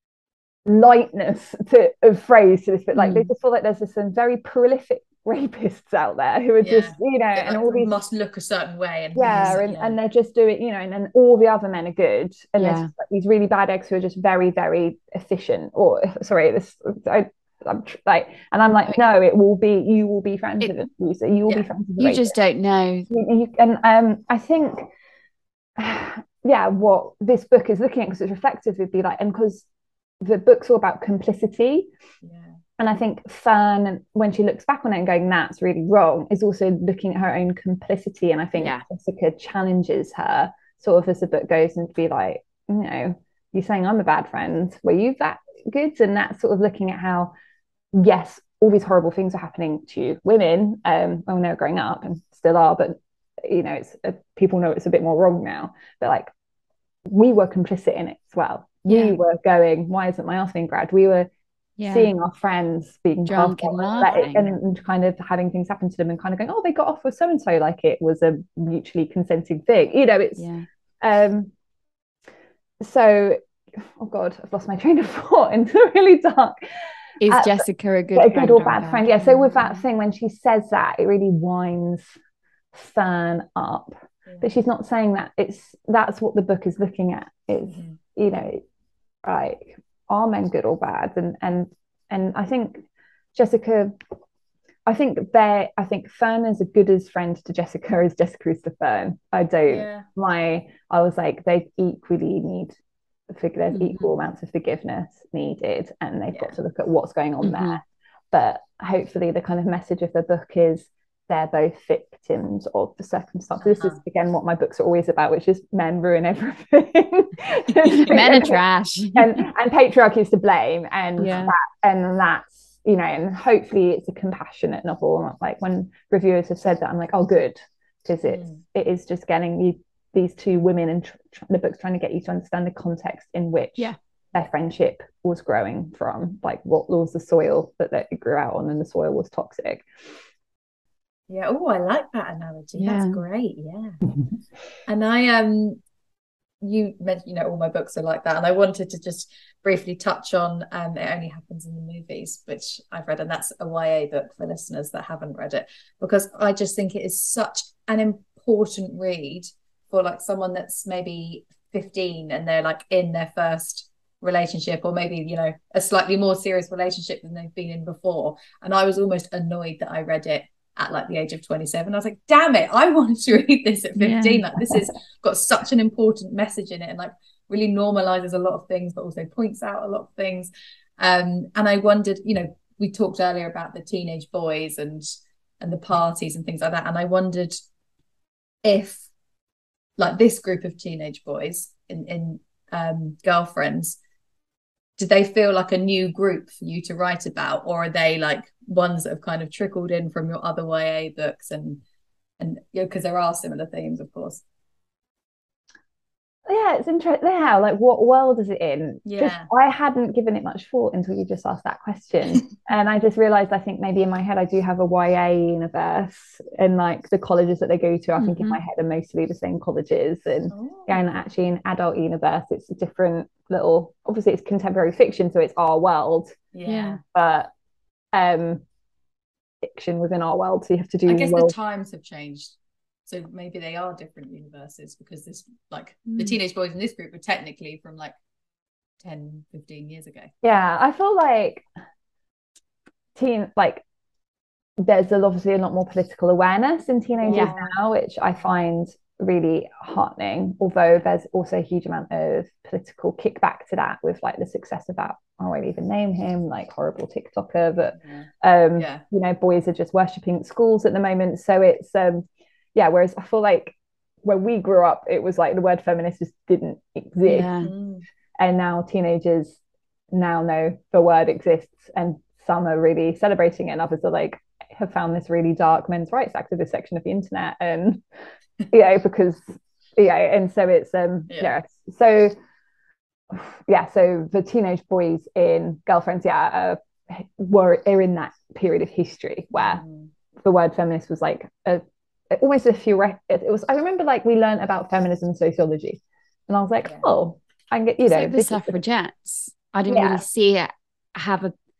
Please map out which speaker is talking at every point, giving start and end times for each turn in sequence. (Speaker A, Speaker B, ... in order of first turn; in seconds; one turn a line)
Speaker A: 0.7-7.9
Speaker B: 2.9-3.3
Speaker C: 6.6-9.9
Speaker A: 9.1-22.3
Speaker B: 9.3-9.5
Speaker B: 12.6-12.9
Speaker B: 22.0-23.1
Speaker A: 23.1-24.9
Speaker A: 25.8-29.6
Speaker A: 30.2-31.9
Speaker C: 32.2-32.6
Speaker A: 32.8-47.3
Speaker B: 38.6-38.8
Speaker A: 47.9-56.3
Speaker A: 57.1-61.3
Speaker B: 58.9-59.2
Speaker B: 61.8-62.1
Speaker A: 61.9-70.5
Speaker B: 63.2-64.5
Speaker B: 70.4-70.7
Speaker A: 71.0-71.5
Speaker A: 72.8-76.6
Speaker B: 77.2-79.7
Speaker A: 77.2-82.1
Speaker A: 82.7-88.6
Speaker C: 87.7-88.0
Speaker A: 89.2-92.8
Speaker A: 93.3-94.0
Speaker A: 94.8-102.8
Speaker C: 99.7-100.1
Speaker A: 103.3-107.8
Speaker B: 103.7-104.1
Speaker B: 107.4-107.8
Speaker A: 108.3-118.6
Speaker C: 113.6-114.0
Speaker B: 117.8-119.4
Speaker A: 119.1-139.8
Speaker B: 121.2-121.5
Speaker C: 128.2-128.6
Speaker C: 141.3-144.0
Speaker B: 142.8-143.2
Speaker C: 144.9-145.8
Speaker C: 146.6-187.6
Speaker B: 174.0-174.5
Speaker C: 188.6-189.1
Speaker C: 190.0-194.0
Speaker C: 195.0-201.8
Speaker C: 202.4-204.4
Speaker A: 206.4-226.4
Speaker C: 209.1-209.5
Speaker B: 218.2-218.6
Speaker C: 220.5-221.0
Speaker C: 226.5-227.0
Speaker B: 226.6-227.0
Speaker A: 227.0-227.5
Speaker A: 228.1-228.6
Speaker A: 229.6-231.5
Speaker C: 231.1-232.5
Speaker C: 233.1-238.1
Speaker B: 236.1-236.4
Speaker C: 239.0-240.3
Speaker A: 240.4-241.6
Speaker A: 243.2-243.8
Speaker A: 244.8-267.5
Speaker C: 247.2-247.7
Speaker B: 247.3-247.6
Speaker C: 258.0-259.0
Speaker B: 267.2-267.7
Speaker C: 267.6-268.0
Speaker A: 268.4-269.6
Speaker A: 270.1-278.0
Speaker A: 278.7-279.4
Speaker A: 279.9-282.4
Speaker A: 283.3-289.8
Speaker C: 289.6-290.1
Speaker A: 290.4-298.8
Speaker C: 296.8-297.1
Speaker B: 298.0-301.5
Speaker A: 299.9-300.2